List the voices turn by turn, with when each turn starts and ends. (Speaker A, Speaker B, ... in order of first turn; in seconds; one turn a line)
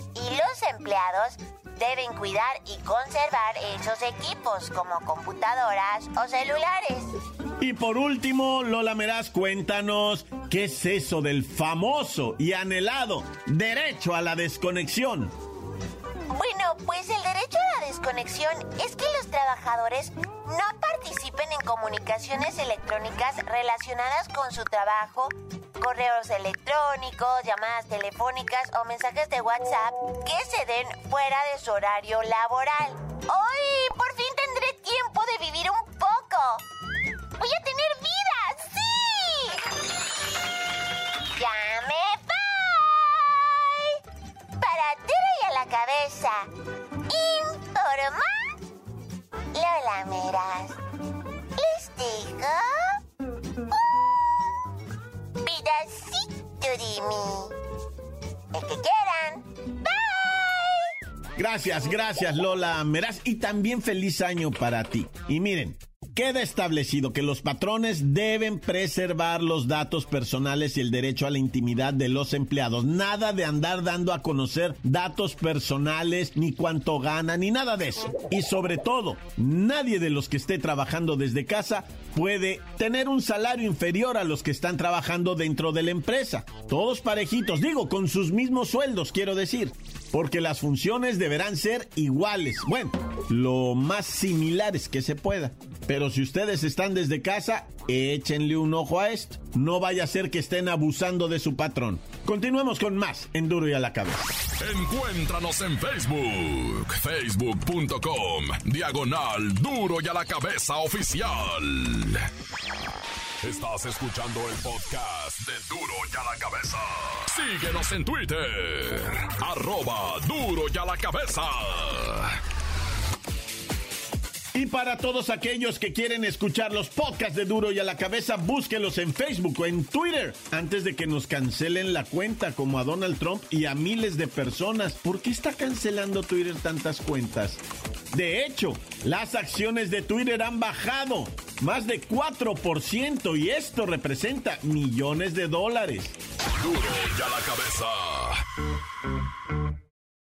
Speaker A: 0.1-7.1
Speaker B: 7.6-15.3
Speaker A: 16.3-36.6
Speaker A: 37.4-39.7
Speaker A: 41.4-44.0
Speaker A: 44.6-46.5
Speaker A: 47.1-48.5
Speaker A: 49.5-50.8
Speaker A: 51.6-53.0
Speaker A: 55.4-57.5
Speaker A: 58.5-60.9
Speaker B: 61.4-104.3
Speaker C: 104.6-112.3
Speaker C: 113.4-122.4
Speaker B: 124.5-146.2
Speaker C: 146.6-148.4